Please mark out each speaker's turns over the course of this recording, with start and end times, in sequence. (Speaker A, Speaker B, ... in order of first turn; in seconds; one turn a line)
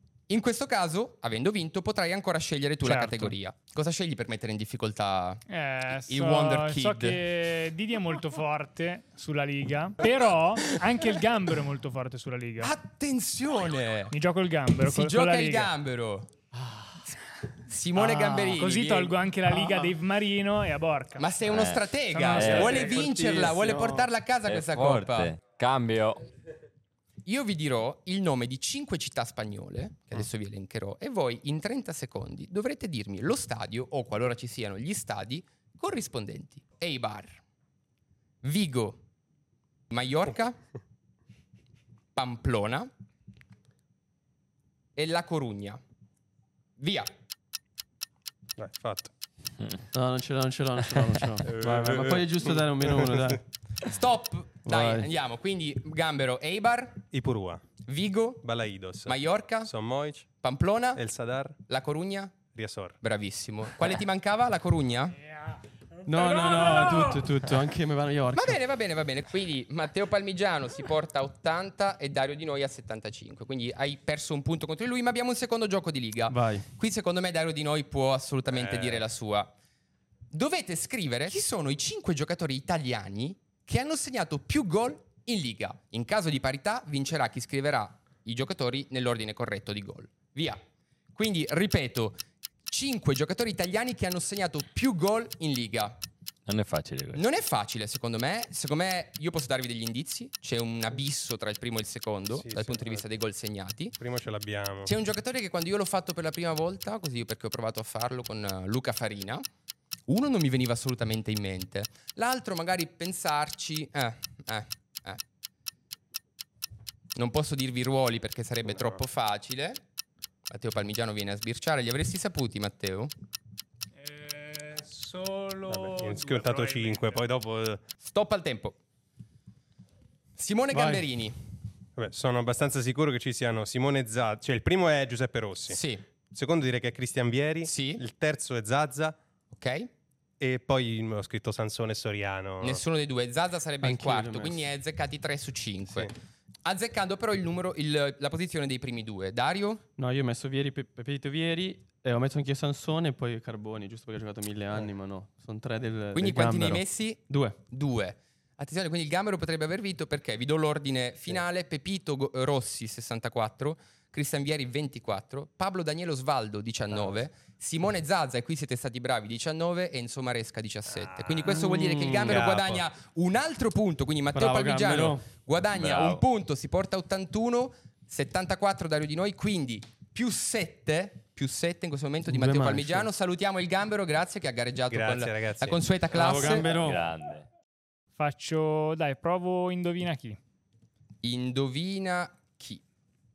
Speaker A: 0.3-5.4
Speaker B: 2.8-3.4
Speaker B: 5.5-12.7
Speaker A: 6.0-7.2
Speaker A: 12.6-14.1
Speaker B: 14.1-15.7
Speaker A: 14.8-16.3
Speaker A: 17.7-19.1
Speaker B: 17.9-21.4
Speaker A: 21.2-25.4
Speaker C: 21.5-23.0
Speaker B: 22.1-22.5
Speaker D: 22.4-24.1
Speaker C: 24.4-26.3
Speaker A: 27.2-37.4
Speaker A: 38.4-39.0
Speaker A: 39.9-40.6
Speaker A: 42.1-42.9
Speaker A: 45.0-45.8
Speaker A: 46.8-47.1
Speaker E: 48.6-49.1
Speaker D: 49.9-53.4
Speaker E: 51.5-53.2
Speaker A: 53.8-57.1
Speaker D: 54.6-55.1
Speaker E: 57.1-57.6
Speaker A: 57.9-58.5
Speaker E: 58.4-60.3
Speaker A: 59.1-59.7
Speaker A: 60.4-61.0
Speaker E: 61.0-61.6
Speaker A: 61.7-62.4
Speaker E: 62.5-63.0
Speaker A: 63.0-65.2
Speaker B: 65.5-67.3
Speaker D: 66.1-68.6
Speaker A: 68.3-79.5
Speaker D: 76.3-76.7
Speaker E: 78.5-79.0
Speaker A: 80.3-90.6
Speaker A: 91.1-92.2
Speaker A: 92.7-96.0
Speaker C: 96.5-97.2
Speaker A: 97.1-104.0
Speaker E: 102.3-103.0
Speaker E: 104.0-104.9
Speaker A: 104.8-109.5
Speaker A: 110.1-115.2
Speaker A: 117.2-119.8
Speaker A: 120.5-123.1
Speaker B: 124.0-127.3
Speaker E: 125.7-127.8
Speaker A: 128.0-128.8
Speaker A: 130.4-131.4
Speaker D: 130.7-131.0
Speaker E: 132.0-135.8
Speaker A: 135.7-136.1
Speaker E: 136.3-139.2
Speaker A: 137.6-138.0
Speaker A: 139.5-139.9
Speaker E: 140.4-142.8
Speaker A: 142.6-146.1
Speaker D: 143.8-144.7
Speaker A: 146.7-149.8
Speaker D: 150.0-157.6
Speaker A: 156.1-186.7
Speaker E: 171.1-171.4
Speaker D: 171.4-172.7
Speaker D: 174.3-175.3
Speaker C: 175.8-176.2
Speaker D: 182.2-183.1
Speaker E: 184.9-185.8
Speaker D: 186.1-187.0
Speaker C: 186.6-187.5
Speaker B: 188.2-190.4
Speaker A: 191.2-192.8